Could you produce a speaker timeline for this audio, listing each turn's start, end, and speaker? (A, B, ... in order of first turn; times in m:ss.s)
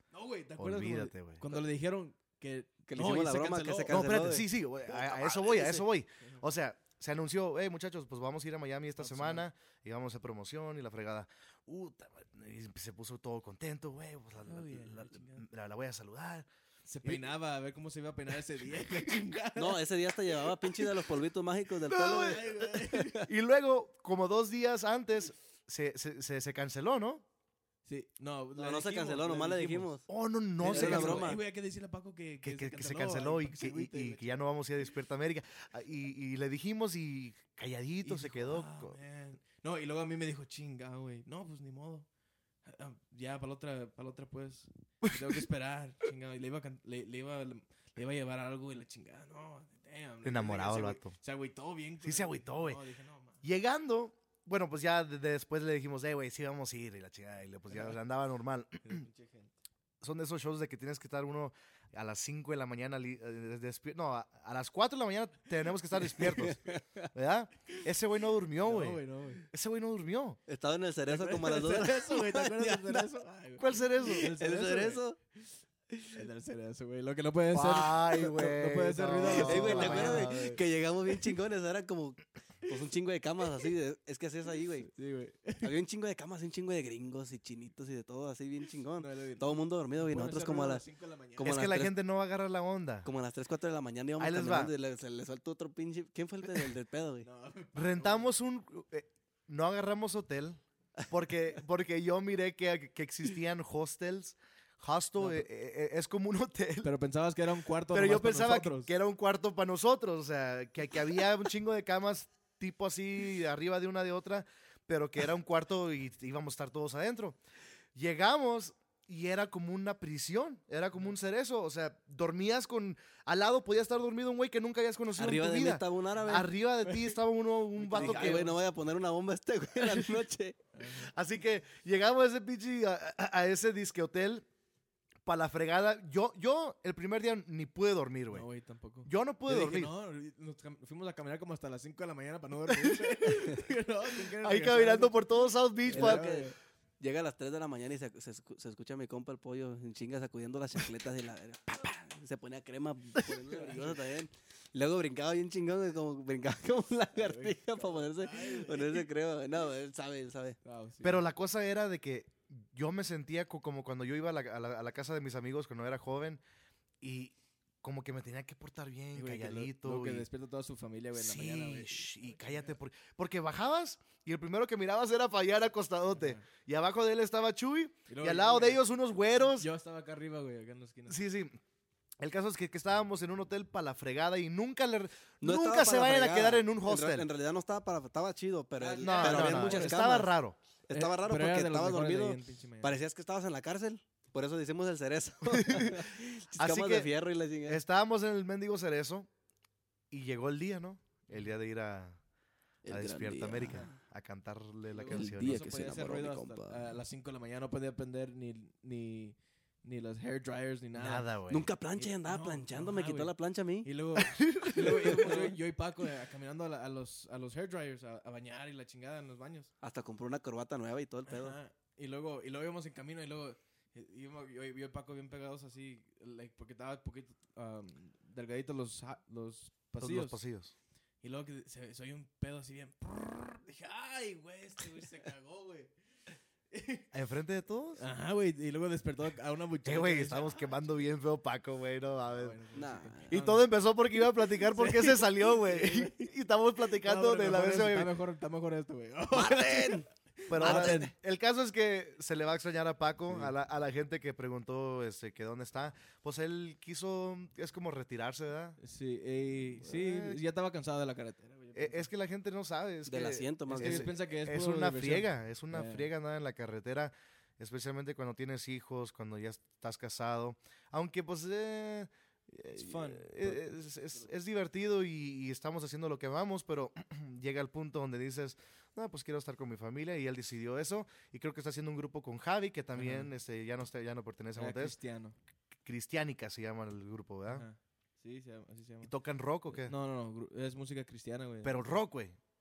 0:00.1-0:04.2 A
0:00.6-0:01.4 B
0:02.9-0:05.8 C
0:03.9-0:16.5 B
0:09.0-0:09.5 A
0:14.5-0:15.5 A
0:16.8-0:20.9 A
0:19.6-0:23.1 C
0:21.9-0:22.5 B
0:22.0-0:23.3 A
0:23.2-0:27.2 B
0:27.9-0:30.0 A
0:28.6-0:30.0 C
0:30.1-0:31.3 B
0:30.6-0:34.4 A
0:30.6-0:31.4 C
0:32.4-0:39.0 B
0:38.0-0:42.1 A
0:42.6-0:53.4 A
0:50.2-0:51.2 B
0:52.0-0:52.8 B
0:53.4-0:59.0 B
0:58.8-0:59.5 A
1:00.0-1:06.6 B
1:06.2-1:06.8 C
1:07.1-1:10.4 B
1:08.6-1:09.5 A
1:10.5-1:13.1 C
1:11.1-1:15.0 A
1:13.6-1:14.3 B
1:14.2-1:15.2 C
1:16.1-1:20.6 A
1:17.5-1:20.4 B
1:19.2-1:24.9 C
1:24.8-1:25.8 A
1:25.6-1:30.8 C
1:29.0-1:31.6 A
1:31.4-1:31.9 C
1:31.4-1:33.1 B
1:33.1-1:37.3 C
1:34.2-1:34.7 B
1:37.2-1:38.3 A
1:37.8-1:46.9 B
1:45.2-1:45.5 A
1:46.8-1:48.9 A
1:47.9-1:57.4 B
1:58.0-2:08.5 B
2:05.2-2:06.5 C
2:06.2-2:06.4 A
2:07.8-2:08.6 A
2:08.0-2:10.6 C
2:10.8-2:11.1 A
2:11.0-2:14.5 B
2:15.3-2:18.5 B
2:18.3-2:25.3 A
2:19.0-2:19.9 B
2:22.8-2:23.3 B
2:24.3-2:26.3 B
2:25.8-2:26.6 A
2:25.9-2:40.6 C
2:33.5-2:34.0 A
2:37.2-2:39.1 A
2:40.6-2:41.2 A
2:41.0-2:46.4 B
2:47.0-2:50.2 B
2:49.1-2:52.8 A
2:51.2-2:59.7 B
2:56.1-2:56.4 A
2:58.1-2:58.8 A
2:59.4-3:01.2 A
3:01.1-3:01.6 B
3:02.2-3:07.3 B
3:05.4-3:10.3 C
3:08.8-3:10.3 A
3:09.0-3:10.6 B
3:10.9-3:17.8 C
3:10.9-3:13.0 A
3:15.5-3:16.0 B
3:16.6-3:17.1 B
3:17.7-3:19.3 B
3:20.1-3:22.2 B
3:22.8-3:24.0 C
3:22.9-3:25.6 B
3:24.9-3:31.3 A
3:25.1-3:26.8 C
3:31.0-3:31.7 B
3:31.5-3:33.9 C
3:32.0-3:39.7 A
3:34.2-3:35.3 B
3:35.1-3:35.5 C
3:39.8-3:41.6 C
3:41.3-3:50.4 A
3:50.0-3:50.7 B
3:51.2-3:55.9 A
3:56.7-3:57.1 A
3:57.1-3:58.0 B
3:58.0-4:00.7 A
3:59.9-4:02.6 B
4:02.3-4:03.7 A
4:02.7-4:03.2 C
4:03.3-4:08.1 B
4:04.4-4:06.3 A
4:07.0-4:11.1 A
4:09.3-4:10.0 C
4:10.5-4:18.8 B
4:10.6-4:11.1 C
4:13.3-4:13.5 A
4:18.8-4:22.1 A
4:19.8-4:20.4 B
4:21.8-4:45.0 B
4:23.1-4:24.1 C
4:23.7-4:26.1 A
4:32.8-4:33.8 A
4:43.0-4:43.3 A
4:44.6-4:45.4 A
4:45.8-4:47.7 B
4:47.5-4:49.1 A
4:49.0-4:50.0 B
4:49.7-4:51.8 A
4:51.6-4:52.4 B